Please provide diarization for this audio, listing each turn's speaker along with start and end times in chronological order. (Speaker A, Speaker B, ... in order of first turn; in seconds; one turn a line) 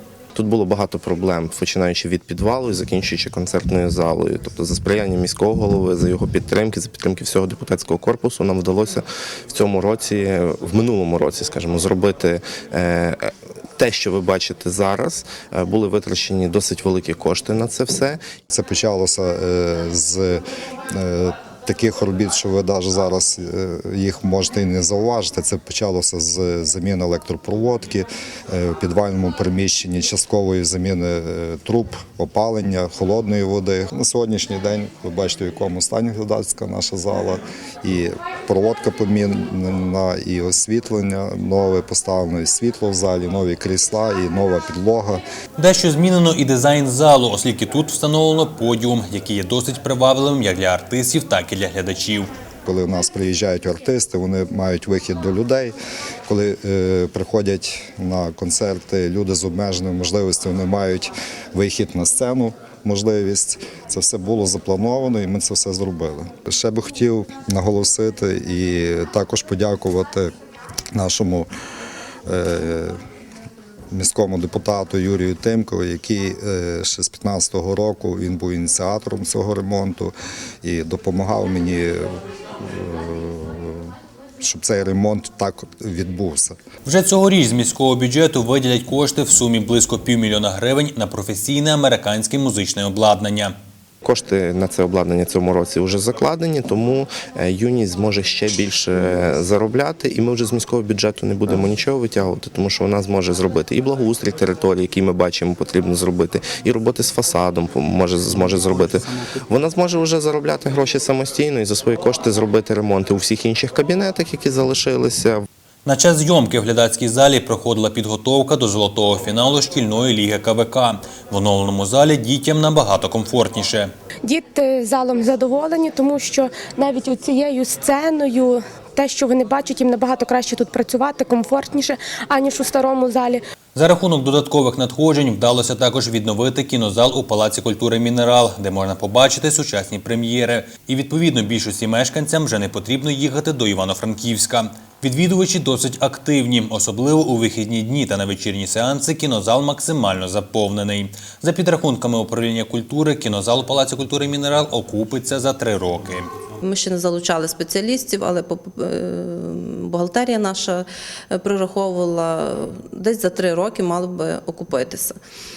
Speaker A: 0.3-18.2
Speaker B: 18.5-20.4
Speaker B: 20.9-45.2
Speaker C: 45.6-52.3
Speaker B: 52.7-55.8
Speaker B: 56.3-70.3
Speaker B: 70.9-71.5
Speaker B: 72.2-73.0
Speaker B: 73.9-82.1
Speaker B: 82.6-83.9
Speaker B: 84.4-86.6
Speaker C: 86.8-93.5
Speaker A: 94.0-115.4
Speaker C: 115.8-123.9
Speaker D: 124.3-133.4
Speaker C: 133.8-156.3
Speaker E: 156.6-165.2